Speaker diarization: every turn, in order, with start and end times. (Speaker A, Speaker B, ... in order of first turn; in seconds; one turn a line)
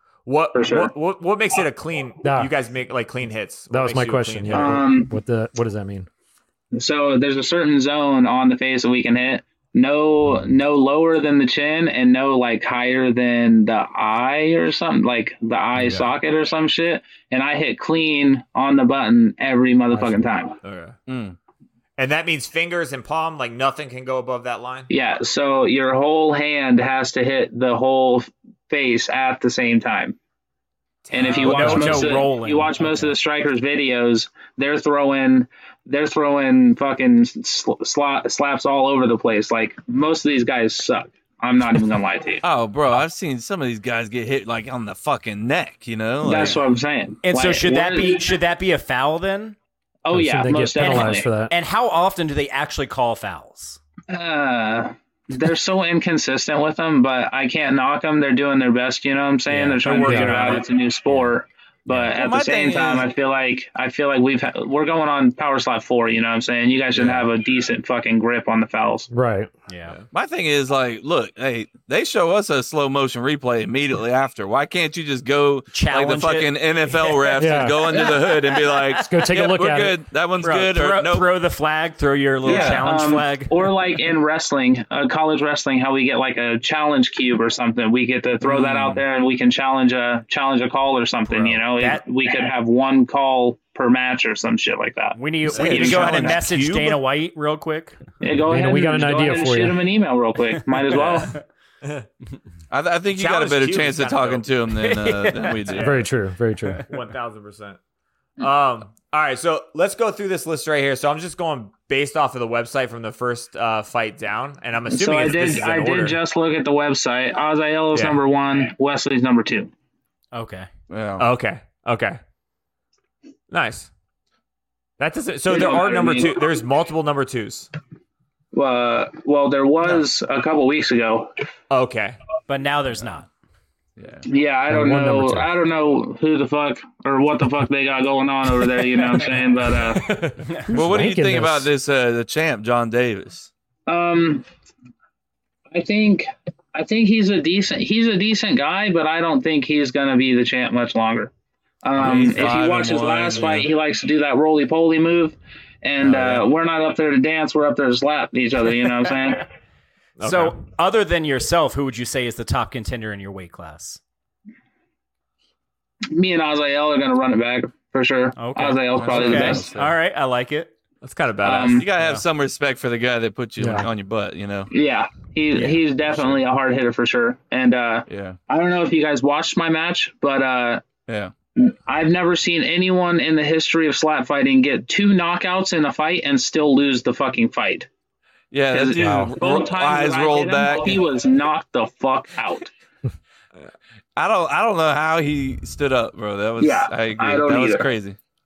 Speaker A: 0.3-4.8
Speaker B: 0.5-0.9
Speaker C: 2.2-2.5
Speaker C: 3.7-6.1
Speaker B: 4.5-5.1
Speaker B: 6.7-20.6
Speaker A: 20.6-21.0
Speaker D: 21.1-21.4
Speaker A: 22.0-24.9
Speaker B: 24.9-30.2
Speaker A: 31.1-32.2
Speaker B: 31.1-42.4
Speaker E: 31.4-33.1
Speaker D: 42.4-46.6
Speaker B: 46.2-48.3
Speaker E: 47.2-49.6
Speaker B: 50.0-51.3
Speaker C: 50.1-51.5
Speaker E: 50.8-53.8
Speaker B: 54.1-69.1
Speaker C: 59.5-60.6
Speaker E: 59.8-60.6
Speaker D: 62.0-63.1
Speaker D: 66.9-67.2
Speaker C: 69.1-69.5
Speaker E: 69.7-70.0
Speaker D: 70.1-81.3
Speaker E: 75.7-76.5
Speaker C: 77.4-77.9
Speaker E: 78.0-79.1
Speaker C: 79.0-80.0
Speaker E: 80.4-83.7
Speaker D: 82.4-82.9
Speaker B: 82.5-96.2
Speaker A: 88.6-88.9
Speaker E: 91.4-92.0
Speaker E: 95.2-98.0
Speaker A: 95.5-97.0
Speaker D: 95.5-96.4
Speaker B: 98.2-101.3
Speaker C: 98.5-99.8
Speaker D: 102.7-106.0
Speaker A: 103.2-104.5
Speaker E: 104.8-105.8
Speaker A: 105.8-106.0
Speaker C: 105.8-106.8
Speaker A: 106.9-107.8
Speaker A: 108.4-116.2
Speaker B: 114.9-119.7
Speaker A: 117.9-118.2
Speaker E: 120.3-120.7
Speaker D: 120.9-121.3
Speaker A: 121.2-122.2
Speaker A: 123.5-123.9
Speaker A: 125.0-127.7
Speaker B: 125.5-126.5
Speaker B: 128.5-131.3
Speaker A: 131.7-132.2
Speaker E: 132.5-133.3
Speaker D: 134.0-134.2
Speaker B: 134.2-140.2
Speaker C: 134.7-135.5
Speaker C: 140.7-141.7
Speaker D: 140.7-143.5
Speaker B: 143.9-144.4
Speaker B: 145.7-151.3
Speaker B: 151.8-159.5
Speaker D: 152.0-153.7
Speaker A: 156.0-156.4
Speaker A: 160.2-160.6
Speaker E: 160.2-164.0
Speaker B: 166.1-169.7
Speaker E: 168.4-170.7
Speaker D: 168.9-169.9
Speaker A: 171.0-171.8
Speaker B: 171.4-171.8
Speaker D: 171.8-174.7
Speaker E: 171.9-172.2
Speaker C: 173.6-173.9
Speaker B: 174.7-180.9
Speaker A: 175.6-175.8
Speaker D: 176.1-176.4
Speaker D: 178.1-178.4
Speaker D: 181.1-181.3
Speaker B: 181.6-187.9
Speaker D: 188.5-191.0
Speaker B: 188.7-192.7
Speaker D: 194.2-198.2
Speaker B: 196.6-197.9